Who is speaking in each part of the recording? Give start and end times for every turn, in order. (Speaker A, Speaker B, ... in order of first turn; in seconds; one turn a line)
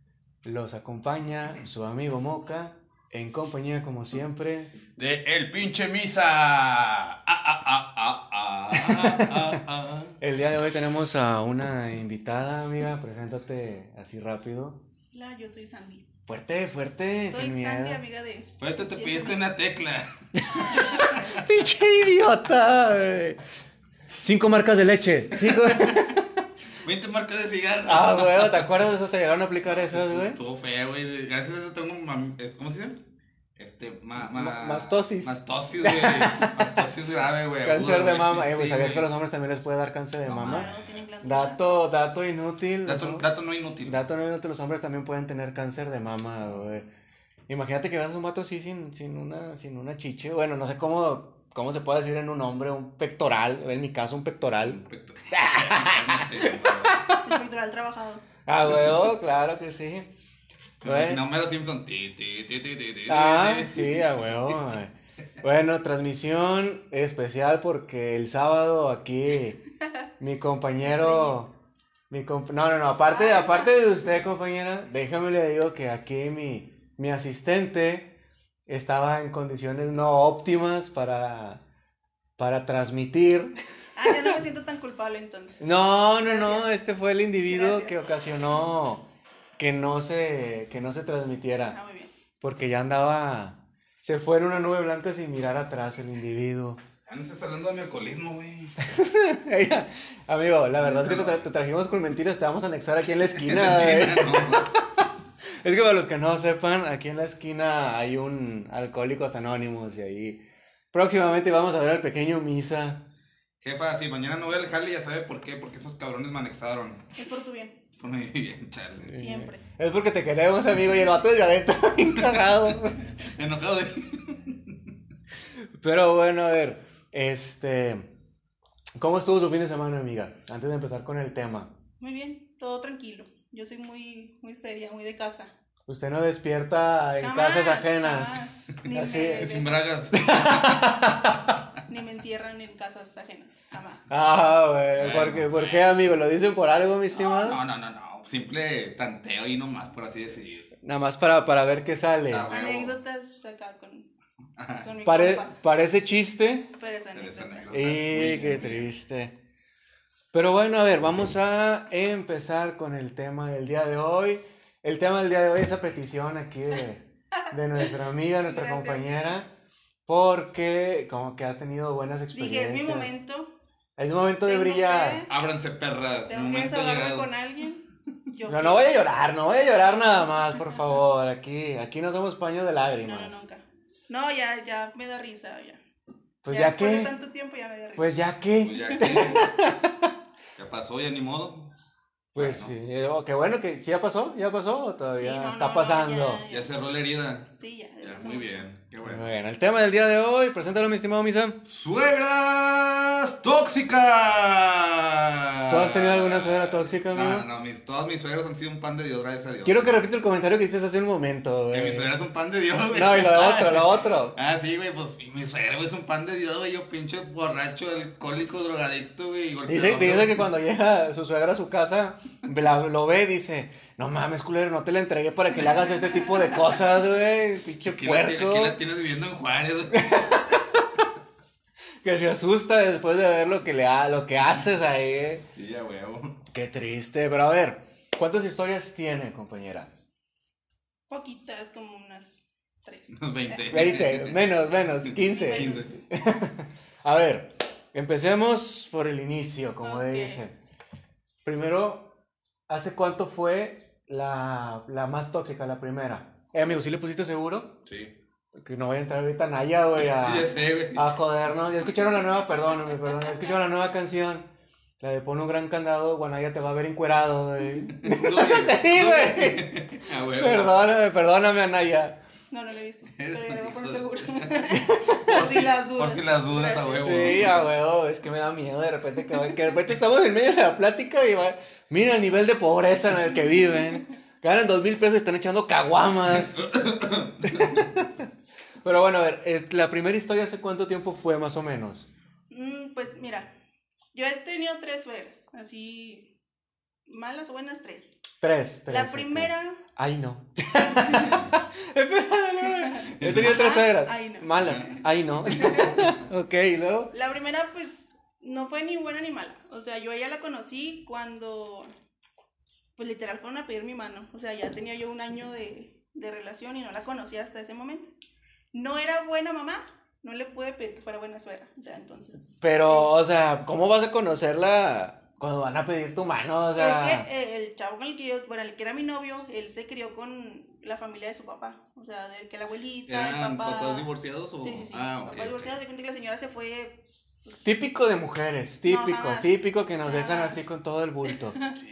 Speaker A: 0.4-4.7
Speaker B: 5.0-10.1
Speaker A: 8.7-9.6
Speaker A: 10.2-14.8
Speaker C: 15.1-16.1
Speaker A: 16.3-18.0
Speaker C: 17.3-19.4
Speaker B: 18.6-21.4
Speaker A: 20.4-23.4
Speaker C: 20.9-21.4
Speaker A: 24.2-26.3
Speaker B: 25.4-26.1
Speaker B: 26.8-28.8
Speaker A: 27.9-30.4
Speaker B: 29.6-33.0
Speaker B: 33.6-39.0
Speaker A: 34.2-36.9
Speaker A: 37.6-40.7
Speaker B: 40.3-40.8
Speaker C: 40.3-41.7
Speaker A: 41.2-43.2
Speaker B: 42.8-44.0
Speaker A: 43.8-46.8
Speaker A: 47.5-54.8
Speaker B: 54.6-57.0
Speaker A: 55.3-57.4
Speaker C: 57.2-58.2
Speaker A: 58.5-60.1
Speaker B: 60.8-64.1
Speaker A: 60.8-61.2
Speaker A: 63.1-69.6
Speaker A: 70.2-71.5
Speaker C: 70.8-71.4
Speaker A: 72.1-78.1
Speaker C: 73.1-73.8
Speaker A: 78.7-81.6
Speaker A: 82.4-84.3
Speaker C: 84.0-86.7
Speaker A: 85.6-89.0
Speaker C: 87.5-88.0
Speaker A: 89.6-91.8
Speaker C: 91.7-92.1
Speaker A: 92.4-96.8
Speaker B: 97.1-98.7
Speaker A: 98.8-105.1
Speaker B: 100.8-101.4
Speaker B: 103.4-104.7
Speaker A: 105.6-110.4
Speaker A: 110.9-113.0
Speaker B: 113.6-117.0
Speaker C: 117.2-117.8
Speaker B: 118.0-119.2
Speaker A: 119.1-123.0
Speaker C: 119.1-119.6
Speaker B: 122.2-122.5
Speaker B: 123.2-124.7
Speaker A: 125.8-128.1
Speaker A: 129.0-131.7
Speaker C: 132.0-135.5
Speaker A: 135.9-139.5
Speaker C: 137.2-139.7
Speaker B: 139.2-140.9
Speaker A: 140.1-141.5
Speaker C: 141.8-144.1
Speaker A: 144.1-147.6
Speaker B: 144.9-145.9
Speaker B: 147.1-150.7
Speaker A: 150.8-152.5
Speaker B: 152.2-153.0
Speaker C: 152.5-154.1
Speaker B: 154.6-154.9
Speaker C: 154.8-155.6
Speaker A: 155.0-156.7
Speaker C: 156.7-158.5
Speaker B: 157.1-158.9
Speaker A: 157.7-159.3
Speaker A: 160.3-169.5
Speaker C: 168.5-169.3
Speaker A: 170.1-173.1
Speaker C: 172.3-173.5
Speaker A: 174.0-175.2
Speaker C: 174.4-175.3
Speaker B: 175.3-177.3
Speaker C: 176.3-179.2
Speaker A: 178.5-183.4
Speaker C: 183.0-185.8
Speaker A: 186.4-187.1
Speaker C: 186.5-188.1
Speaker A: 188.0-190.1
Speaker B: 188.6-189.5
Speaker B: 190.6-191.7
Speaker B: 192.3-192.7
Speaker A: 192.3-196.4
Speaker C: 195.2-196.7
Speaker B: 196.5-197.5
Speaker C: 197.5-198.6
Speaker B: 198.0-199.3
Speaker A: 199.0-201.6
Speaker B: 201.7-210.0
Speaker A: 205.7-207.4
Speaker A: 209.6-212.1
Speaker B: 211.7-220.4
Speaker A: 212.9-214.3
Speaker A: 219.7-228.8
Speaker B: 227.8-230.4
Speaker A: 229.9-230.8
Speaker A: 232.0-235.4
Speaker B: 235.6-236.4
Speaker A: 236.5-239.9
Speaker C: 241.1-244.2
Speaker B: 243.1-244.5
Speaker A: 243.7-250.5
Speaker B: 245.0-246.0
Speaker C: 245.3-245.9
Speaker C: 249.8-250.4
Speaker A: 251.4-252.1
Speaker A: 252.7-257.7
Speaker B: 257.9-258.1
Speaker A: 258.6-264.5
Speaker B: 260.1-261.1
Speaker A: 265.0-269.7
Speaker B: 267.9-270.9
Speaker A: 270.4-272.2
Speaker C: 272.5-277.4
Speaker B: 273.2-274.7
Speaker A: 274.7-275.7
Speaker B: 275.9-277.6
Speaker A: 277.0-286.7
Speaker B: 286.3-287.9
Speaker A: 287.4-288.3
Speaker A: 288.8-292.1
Speaker C: 292.5-293.5
Speaker C: 294.1-296.3
Speaker C: 297.1-298.1
Speaker A: 298.4-307.1
Speaker C: 298.9-299.8
Speaker C: 300.8-301.5
Speaker C: 302.6-306.1
Speaker B: 303.1-303.6
Speaker B: 304.6-304.8
Speaker C: 307.1-311.9
Speaker C: 313.0-318.1
Speaker C: 318.7-323.1
Speaker A: 322.6-327.3
Speaker C: 326.8-334.1
Speaker B: 333.1-335.7
Speaker C: 334.6-337.0
Speaker A: 337.6-341.6
Speaker C: 338.9-340.6
Speaker C: 341.5-341.8